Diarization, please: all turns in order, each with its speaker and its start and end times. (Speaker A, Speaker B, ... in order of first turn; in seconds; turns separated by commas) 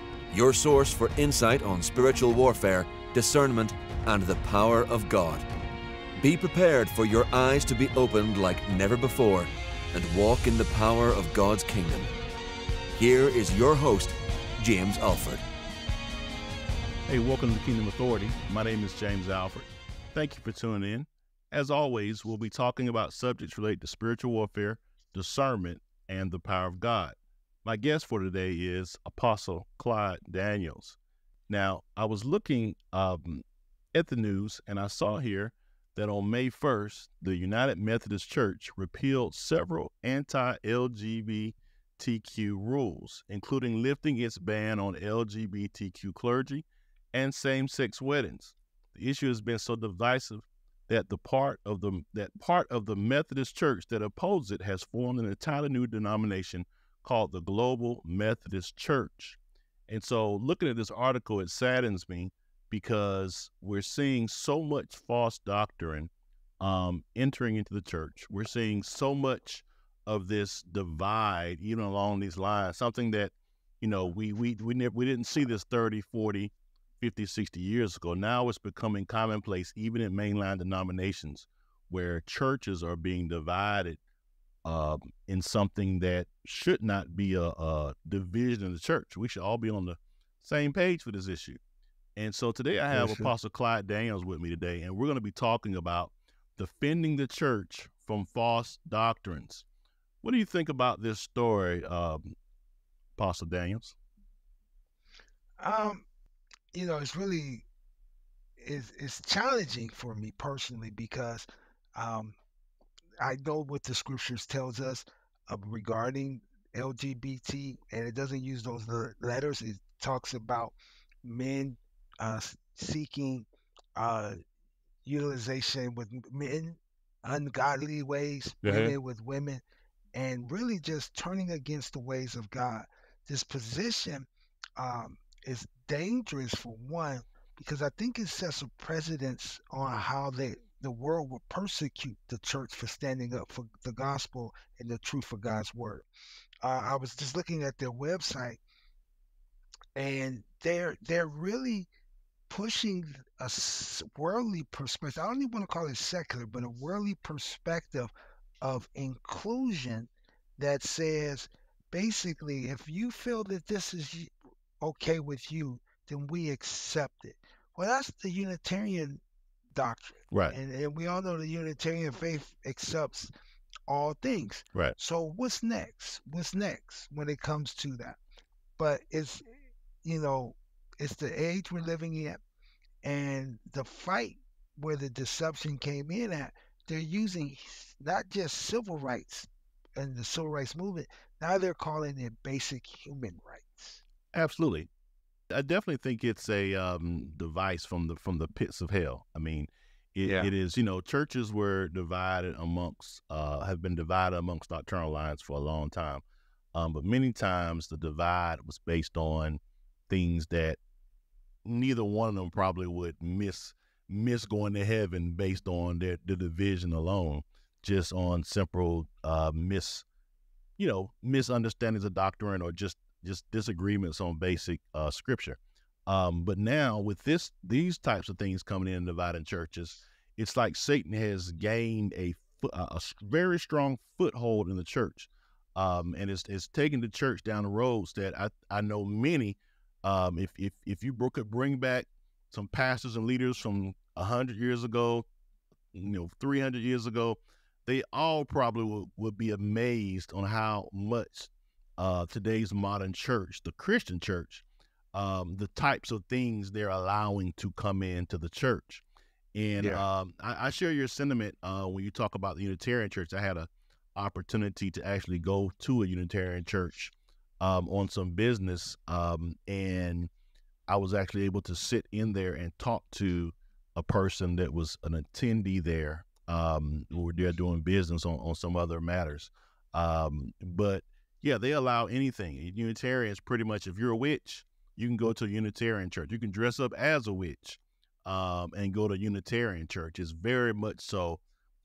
Speaker A: 0.3-5.5, Speaker A: 6.2-12.1, Speaker A: 12.9-15.4, Speaker B: 17.1-31.0, Speaker B: 31.5-84.0, Speaker B: 84.6-91.6, Speaker B: 92.2-99.6, Speaker C: 92.9-93.3, Speaker B: 100.2-102.3, Speaker B: 103.2-104.0, Speaker C: 105.6-106.0, Speaker C: 106.7-107.6, Speaker C: 108.6-112.3, Speaker C: 113.2-124.4, Speaker C: 125.0-129.6, Speaker B: 128.6-128.9, Speaker C: 130.1-146.1, Speaker C: 146.6-148.6, Speaker C: 149.9-151.9, Speaker C: 152.5-158.1, Speaker C: 158.6-169.2, Speaker C: 169.7-173.3, Speaker B: 170.3-170.6, Speaker C: 173.9-178.2, Speaker C: 178.8-179.4, Speaker C: 180.0-182.4, Speaker C: 183.0-194.0, Speaker B: 194.3-194.9, Speaker B: 195.5-206.2, Speaker C: 200.2-200.5, Speaker B: 206.7-210.8, Speaker B: 211.6-220.1, Speaker B: 220.8-245.2, Speaker B: 245.9-259.0, Speaker B: 259.5-270.3, Speaker C: 259.8-260.1, Speaker B: 270.9-291.4